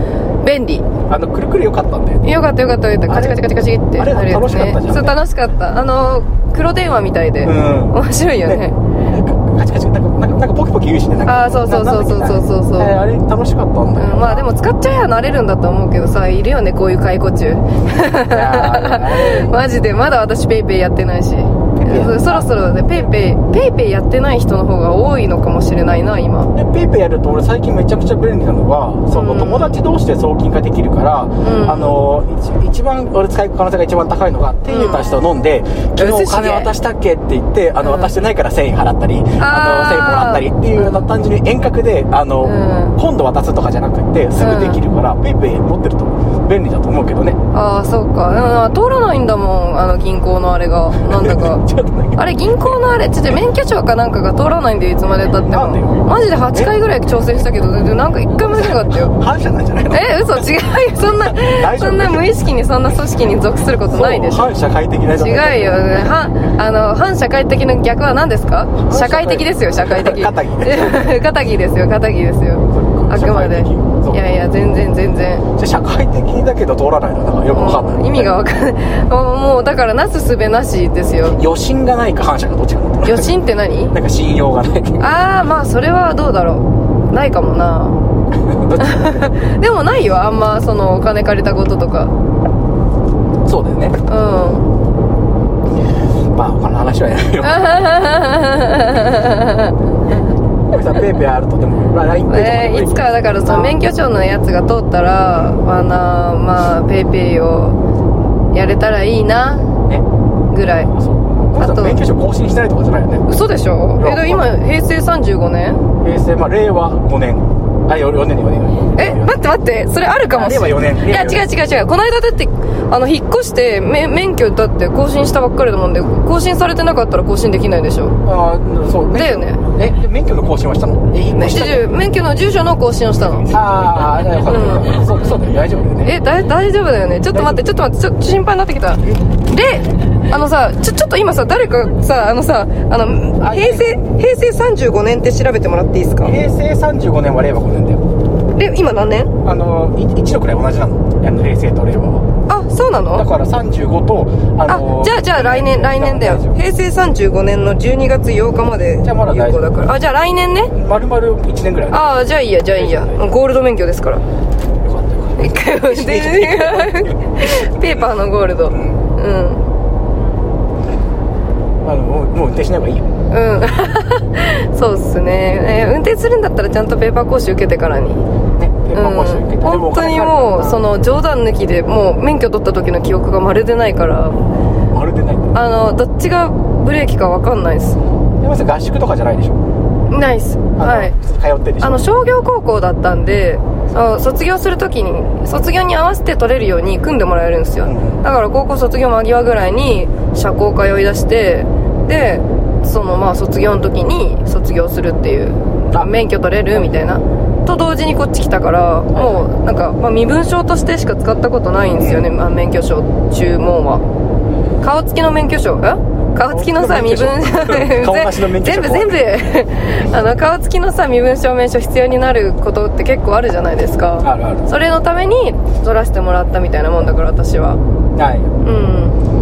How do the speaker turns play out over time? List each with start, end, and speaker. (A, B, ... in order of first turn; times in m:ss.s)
0:00.4-0:00.9 A
0:01.0-0:02.2 B
0:02.2-0:08.8 A
0:03.1-0:05.2 B
0:07.4-0:14.6 B
0:11.2-0:13.0 A
0:14.0-0:26.5 A
0:18.1-0:19.5 B
0:21.8-0:23.0 B
0:26.5-0:47.4 B
0:29.1-0:29.8 A
0:31.4-0:32.0 A
0:34.7-0:35.2 A
0:36.0-0:36.7 A
0:37.8-0:38.1 A
0:39.4-0:41.0 A
0:42.4-0:42.9 A
0:44.4-0:44.8 A
0:47.5-0:51.6 A
0:51.0-0:52.8 B
0:52.2-0:59.1 A
0:55.5-0:56.7 B
0:58.3-1:00.5 B
0:59.9-1:04.5 A
1:01.0-1:02.3 B
1:03.9-1:06.1 B
1:05.2-1:15.4 A
1:08.8-1:11.2 B
1:12.7-1:14.2 B
1:15.6-1:18.3 B
1:17.5-1:21.4 A
1:21.4-1:23.3 B
1:23.0-1:23.9 A
1:23.9-1:25.1 B
1:25.0-1:28.0 A
1:28.5-1:29.3 B
1:28.8-1:32.1 A
1:33.4-1:34.0 B
1:34.1-1:34.6 A
1:36.3-1:37.8 B
1:37.4-1:39.8 A
1:40.7-1:43.8 B
1:42.3-1:47.8 A
1:48.5-1:49.7 A
1:50.5-1:50.9 A
1:50.7-1:53.3 B
1:51.6-1:52.0 A
1:53.3-1:55.8 A
1:54.0-1:54.5 B
1:56.0-1:59.4 B
1:59.0-2:08.2 A
2:00.2-2:01.4 B
2:08.2-2:11.9 B
2:09.1-2:09.6 A
2:11.3-2:13.6 A
2:13.5-2:16.1 B
2:14.4-2:15.0 A
2:16.0-2:26.4 A
2:17.3-2:17.8 B
2:23.4-2:24.0 B
2:26.2-2:28.0 B
2:28.5-2:29.3 A
2:29.4-2:32.3 B
2:32.5-2:33.3 A
2:33.1-2:36.6 B
2:34.7-2:40.7 A
2:39.0-2:39.7 B
2:40.7-2:42.1 B
2:41.9-2:44.2 A
2:42.7-2:43.2 B
2:44.8-2:48.1 B
2:45.4-2:49.6 A
2:48.7-2:49.0 B
2:51.8-2:53.1 B
2:53.3-2:58.2 A
2:58.5-3:00.8 B
2:58.9-3:04.4 A
3:04.9-3:05.5 B
3:05.5-3:08.0 A
3:08.4-3:09.6 B
3:10.1-3:11.1 A
3:10.8-3:12.0 B
3:11.8-3:34.0 A
3:17.8-3:18.2 B
3:29.1-3:29.5 B
3:32.0-3:32.3 B
3:34.8-3:47.8 A
3:36.5-3:39.3 B
3:44.2-3:44.7 B
3:48.1-3:48.5 B
3:48.6-3:49.2 A